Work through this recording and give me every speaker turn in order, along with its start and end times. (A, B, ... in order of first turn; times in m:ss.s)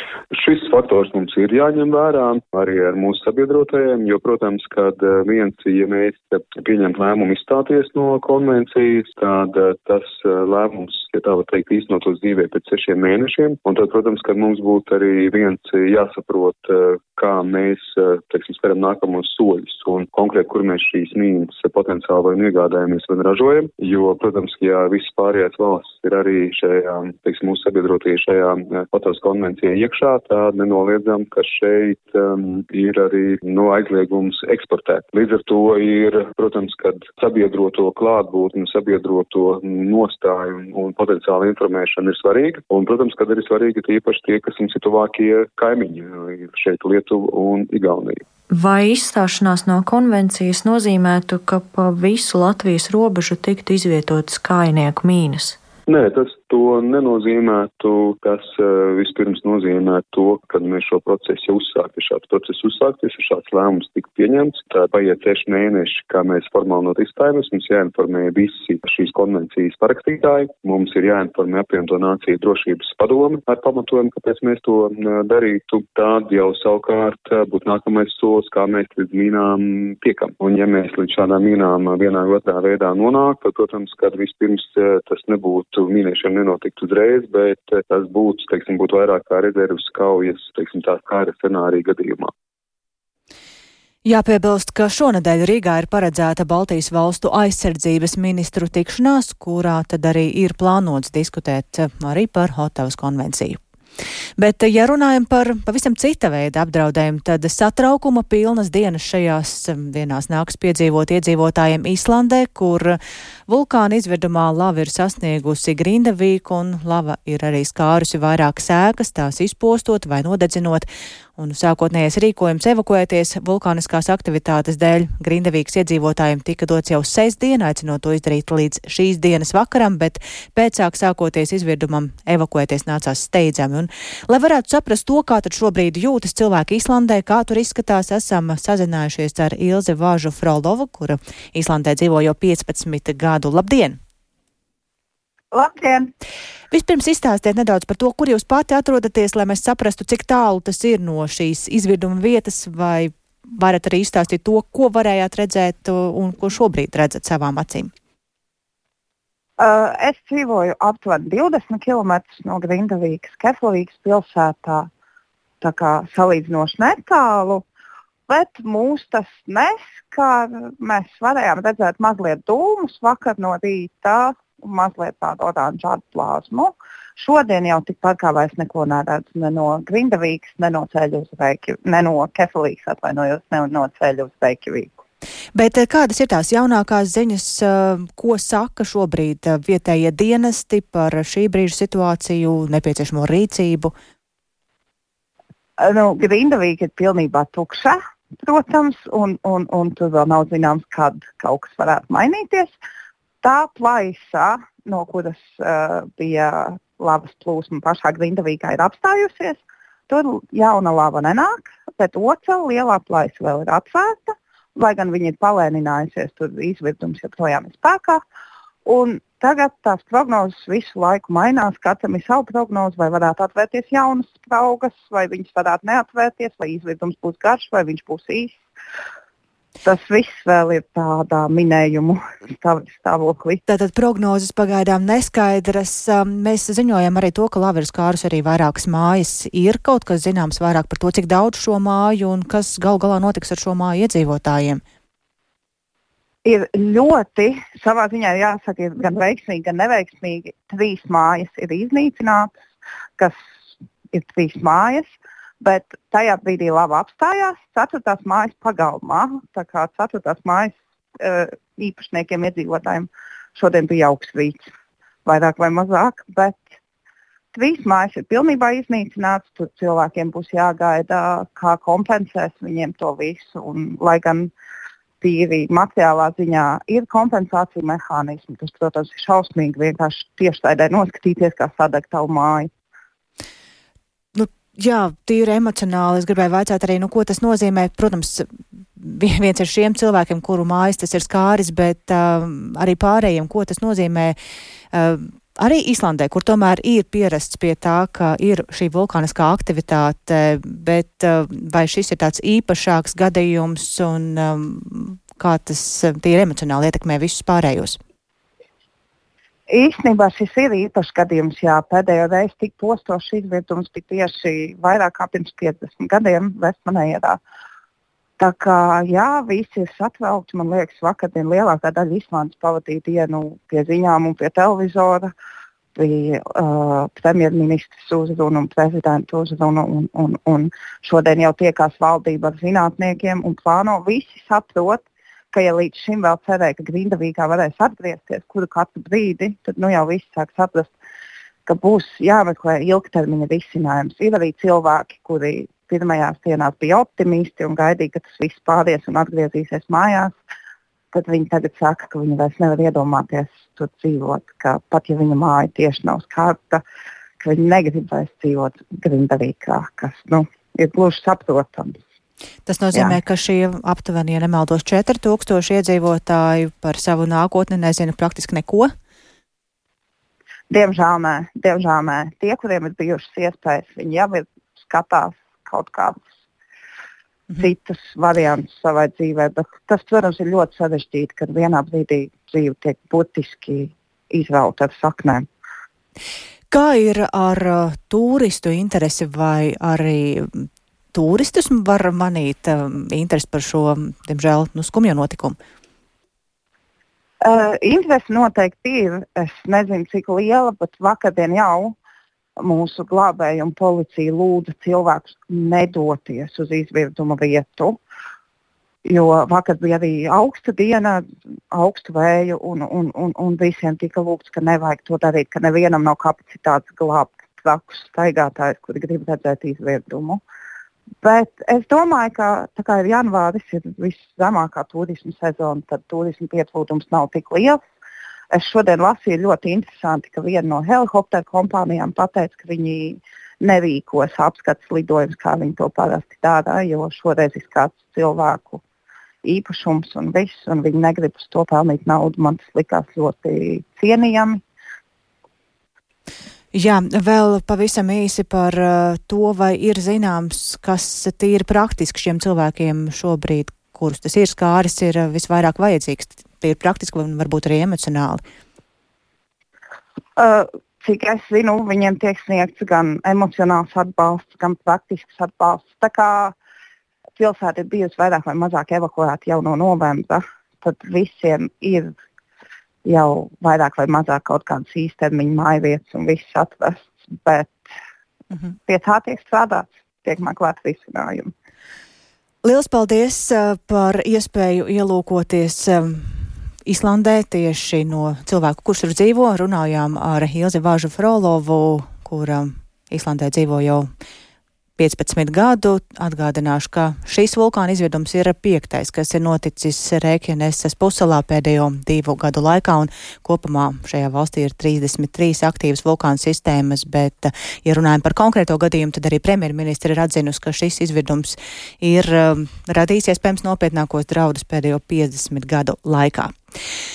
0:00.3-0:48.2 A
0:48.5-0:55.6 B
0:55.9-1:32.3 A
1:34.0-1:43.6 C
1:44.4-2:24.0 C
2:25.5-2:26.1 D
2:26.7-2:37.9 C
2:39.6-2:44.9 D
2:45.6-2:47.6 D
2:48.3-3:05.0 D
3:05.5-3:13.9 C
3:15.8-3:22.8 D
3:23.4-3:38.2 D
3:38.8-3:48.6 D
3:49.8-3:53.6 D
3:53.7-4:04.8 C
4:06.4-4:12.5 D
4:14.1-4:24.7 D
4:25.2-4:26.6 D
4:27.5-4:34.5 D
4:35.2-4:42.7 D
4:44.3-4:54.4 C
4:54.9-5:08.0 C
5:09.7-5:17.4 D
5:18.4-5:25.3 D
5:26.0-5:40.9 D
5:41.7-5:50.4 D
5:51.1-5:56.8 D
5:57.4-6:02.0 D
6:02.7-6:08.9 C
6:10.7-6:16.2 D
6:17.6-6:25.4 D
6:26.7-6:35.6 C
6:37.4-6:42.0 D
6:42.6-6:48.0 D
6:49.0-7:00.4 D
7:01.2-7:07.8 D
7:08.5-7:18.8 D
7:19.4-7:24.6 D
7:26.7-7:38.4 C
7:40.4-7:46.5 D
7:47.4-7:52.1 D
7:53.0-7:57.8 D
7:58.9-8:01.5 D
8:02.6-8:14.1 C
8:15.0-8:36.5 C